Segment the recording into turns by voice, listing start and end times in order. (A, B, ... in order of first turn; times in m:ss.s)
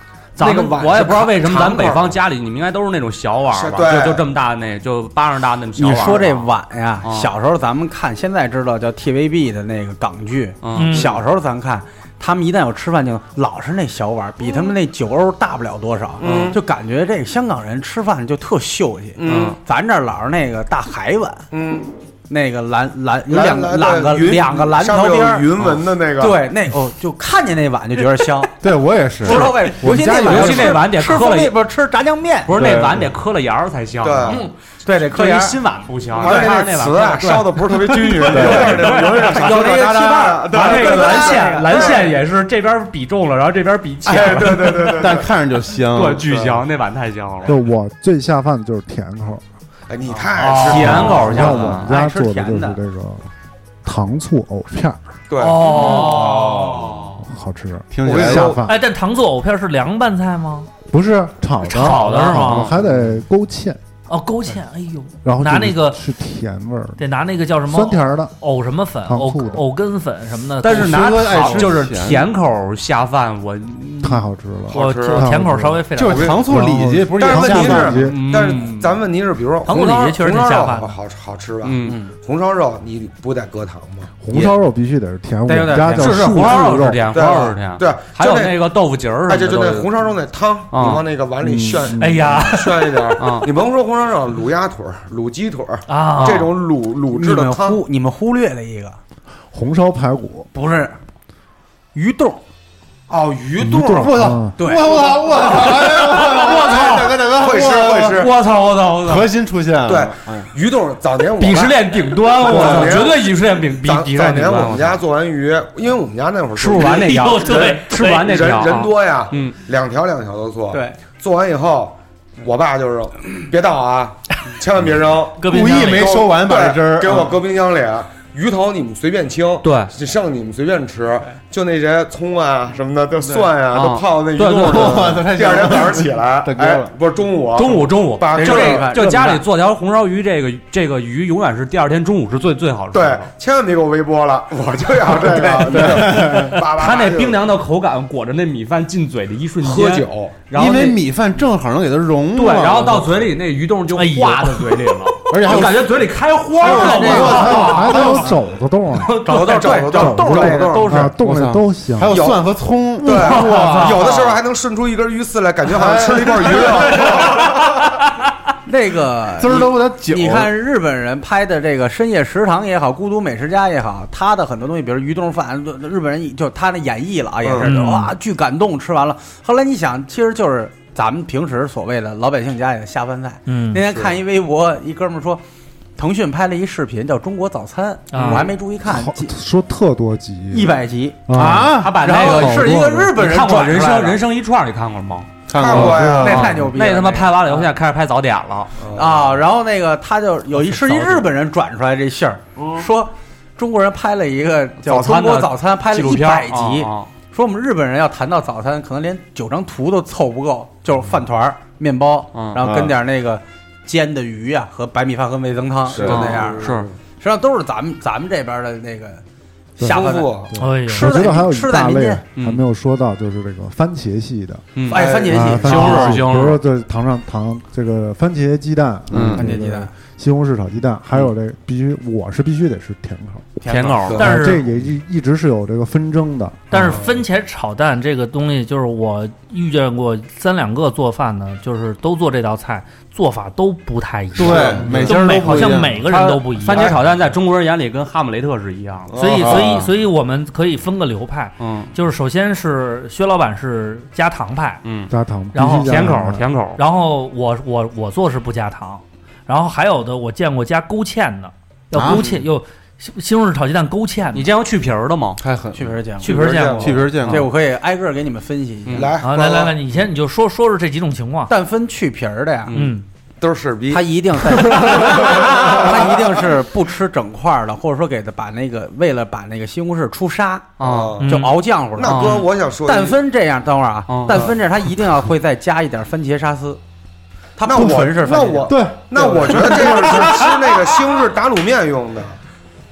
0:00.4-0:02.2 A
0:00.4-0:06.5 B
0:03.5-0:04.3 A
0:05.8-0:21.4 C
0:07.0-0:07.3 B
0:10.6-0:11.2 B
0:10.8-0:11.1 D
0:16.2-0:16.6 A
0:16.2-0:16.6 B
0:19.2-0:19.6 A
0:19.3-0:19.6 B
0:21.5-0:21.9 A
0:22.3-0:25.5 C
0:23.3-0:26.4 A
0:26.2-0:28.6 C
0:28.6-0:30.8 E
0:29.2-0:32.5 C
0:29.2-0:31.6 B
0:32.5-0:34.5 B
0:32.5-0:33.1 E
0:34.0-0:34.4 A
0:34.3-0:35.6 C
0:35.0-0:45.0 B
0:36.1-0:42.2 A
0:36.2-0:36.7 C
0:38.3-0:39.0 E
0:39.2-0:42.0 C
0:44.0-0:45.3 A
0:44.8-0:46.6 E
0:45.9-0:47.6 B
0:47.5-0:49.4 F
0:49.9-0:51.6 A
0:50.3-0:51.9 B
0:50.6-0:52.8 C
0:51.1-0:53.3 F
0:53.8-0:55.0 F
0:55.3-0:56.3 A
0:55.4-0:56.5 D
0:55.6-0:57.2 B
0:55.9-0:56.9 E
0:57.2-0:58.8 F
0:57.9-0:58.6 E
0:58.0-0:58.6 A
0:58.7-1:00.7 D
1:00.9-1:03.8 F
1:01.6-1:02.7 D
1:01.7-1:02.8 B
1:02.8-1:03.1 E
1:04.1-1:06.0 D
1:05.2-1:07.0 F
1:07.0-1:11.7 D
1:07.7-1:08.3 F
1:09.0-1:09.6 F
1:10.6-1:14.3 B
1:10.7-1:12.3 E
1:14.0-1:18.2 F
1:14.7-1:15.3 A
1:14.7-1:16.4 D
1:16.0-1:18.0 E
1:16.1-1:16.5 A
1:17.2-1:24.4 A
1:18.0-1:19.0 B
1:19.7-1:21.0 D
1:21.6-1:22.0 B
1:21.9-1:22.1 C
1:24.2-1:27.1 F
1:25.5-1:26.6 C
1:26.0-1:29.9 B
1:27.1-1:28.6 A
1:29.3-1:37.8 A
1:30.7-1:31.0 B
1:31.4-1:32.5 F
1:32.0-1:33.0 D
1:33.2-1:33.5 B
1:35.9-1:36.5 D
1:36.2-1:36.5 B
1:37.1-1:39.0 C
1:39.5-1:40.5 F
1:40.5-1:41.0 C
1:42.0-1:42.4 C
1:43.1-1:44.4 A
1:43.6-1:44.6 F
1:43.8-1:48.3 E
1:44.6-1:45.2 C
1:45.2-1:48.3 A
1:46.2-1:47.1 B
1:48.1-1:49.3 B
1:49.0-1:50.5 E
1:49.9-2:19.0 A
1:51.4-1:55.0 B
1:52.6-1:52.9 E
1:56.6-1:59.6 B
1:56.8-1:58.7 D
2:00.7-2:01.0 C
2:05.4-2:06.2 D
2:05.4-2:07.3 E
2:09.6-2:09.9 B
2:13.7-2:15.2 B
2:14.5-2:16.9 E
2:17.6-2:23.3 B
2:18.3-2:19.4 C
2:22.9-2:27.4 A
2:25.2-2:26.6 E
2:25.7-2:31.0 B
2:29.6-2:30.4 A
2:30.5-2:33.2 E
2:32.3-2:38.4 B
2:33.9-2:35.1 D
2:35.3-2:36.1 E
2:36.6-2:37.6 C
2:36.6-2:39.2 F
2:36.6-2:37.9 E
2:39.0-2:39.8 B
2:39.3-2:41.1 A
2:39.3-2:41.1 C
2:39.9-2:42.2 F
2:41.1-2:44.2 E
2:42.1-2:47.9 A
2:43.1-2:44.4 B
2:45.8-2:46.8 E
2:46.5-2:47.2 B
2:48.7-3:05.4 C
2:49.4-2:50.5 E
2:57.4-2:57.7 A
2:57.6-2:58.1 D
3:03.5-3:03.8 D
3:03.8-3:04.2 A
3:06.0-3:09.3 C
3:08.1-3:08.5 D
3:08.1-3:08.5 B
3:08.8-3:13.1 F
3:10.5-3:11.4 C
3:11.3-3:12.0 E
3:11.6-3:18.8 B
3:12.0-3:14.2 C
3:15.5-3:16.7 E
3:15.6-3:16.6 A
3:15.8-3:17.7 C
3:18.8-3:19.4 A
3:18.9-3:39.2 C
3:20.9-3:21.2 B
3:24.8-3:27.1 B
3:32.3-3:32.6 B
3:32.6-3:32.9 E
3:35.9-3:37.0 A
3:36.0-3:36.3 E
3:36.0-3:36.9 B
3:39.8-3:42.2 C
3:39.8-3:44.7 F
3:39.8-3:40.6 A
3:40.6-3:41.1 D
3:42.4-3:42.6 B
3:44.8-3:46.6 B
3:44.9-3:46.0 A
3:44.9-3:46.2 C
3:45.3-3:53.5 F
3:49.1-3:49.5 E
3:49.1-3:49.4 B
3:49.4-3:49.9 C
3:53.6-3:54.3 C
3:53.7-3:54.6 B
3:54.2-3:57.0 F
3:54.2-3:54.6 D
3:56.7-4:07.0 D
3:56.8-3:57.2 A
4:04.4-4:06.1 E
4:04.4-4:05.1 A
4:04.8-4:09.2 B
4:06.7-4:07.1 A
4:09.1-4:09.8 A
4:09.2-4:14.8 D
4:09.3-4:09.9 E
4:11.6-4:11.9 B
4:14.8-4:15.1 B
4:15.1-4:16.4 F
4:15.5-4:16.0 D
4:15.8-4:16.8 B
4:16.8-4:24.5 D
4:21.9-4:22.3 E
4:22.0-4:22.4 A
4:24.3-4:25.4 B
4:25.4-4:26.0 E
4:25.8-4:26.4 C
4:26.2-4:26.8 D
4:26.2-4:27.2 A
4:26.3-4:27.4 B
4:26.8-4:27.5 E
4:27.2-4:29.1 C
4:28.9-4:29.1 B
4:28.9-4:29.8 A
4:29.2-4:31.5 D
4:31.5-4:32.8 C
4:32.7-4:33.0 B
4:32.7-4:33.0 D
4:33.4-4:36.2 A
4:33.9-4:46.8 C
4:40.8-4:41.4 B
4:40.8-4:43.2 A
4:41.2-4:41.5 D
4:42.0-4:42.5 B
4:44.1-4:44.5 B
4:44.3-4:44.5 A
4:47.6-4:48.8 C
4:47.6-4:52.4 A
4:48.7-4:50.5 E